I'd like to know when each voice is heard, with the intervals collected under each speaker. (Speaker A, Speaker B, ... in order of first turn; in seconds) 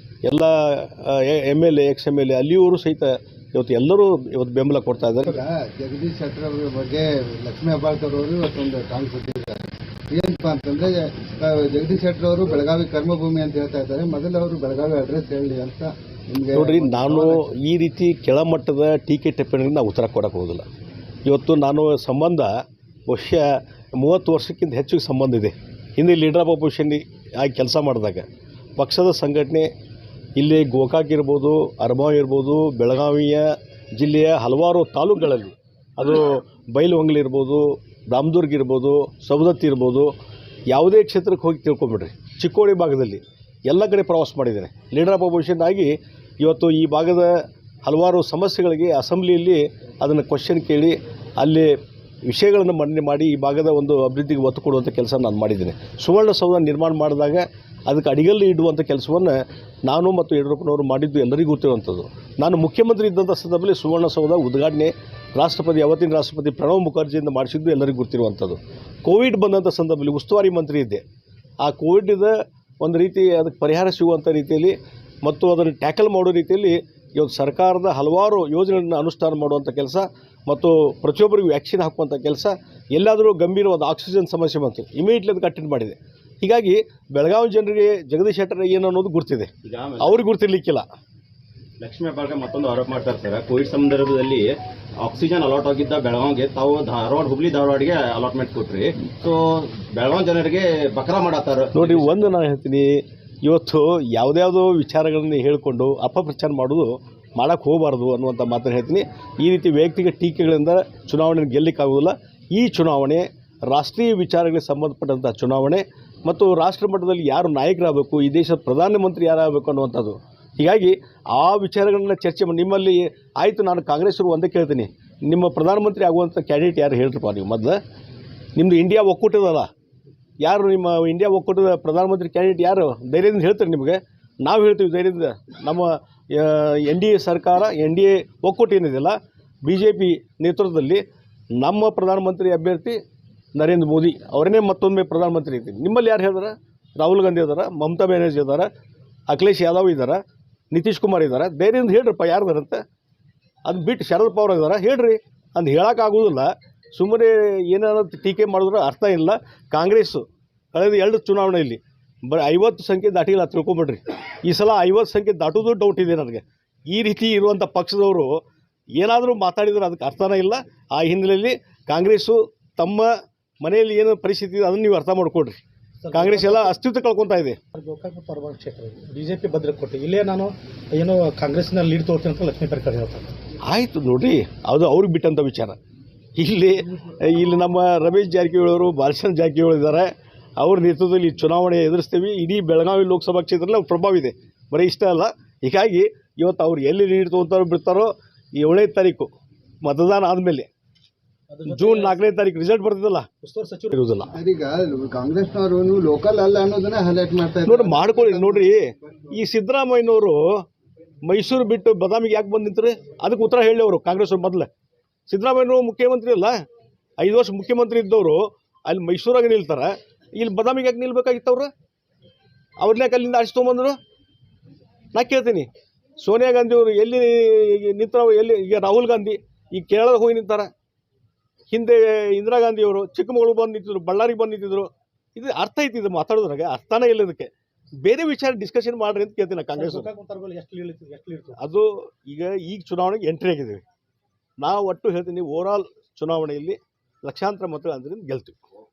Speaker A: 0.2-5.4, 16.5-20.7, 21.3-22.5, 23.1-29.7, 30.4-40.1, 40.7-47.3, 47.9-51.7, 52.2-71.0, 71.6-90.9, 101.7-127.8, 128.6-129.7, 130.4-141.0, 141.6-143.0, 143.6-148.7, 149.3-150.2, 150.7-152.8, 153.7-168.4, 168.9-173.1, 173.6-175.6, 176.1-177.6, 183.6-185.8, 186.4-199.3, 199.8-200.7, 201.7-203.3, 203.9-204.3, 207.6-210.4, 211.2-214.7, 215.3-216.6, 217.2-221.7, 222.8-224.0, 225.1-225.7, 226.2-230.7, 231.7-237.5, 238.0-240.1, 241.6-243.8, 244.6-248.6
Speaker B: 5.2-17.4, 204.3-208.8
Speaker C: 89.6-90.2, 91.8-102.2
Speaker D: 176.0-176.8, 177.7-183.4, 201.5-202.2, 203.4-203.9, 239.8-241.6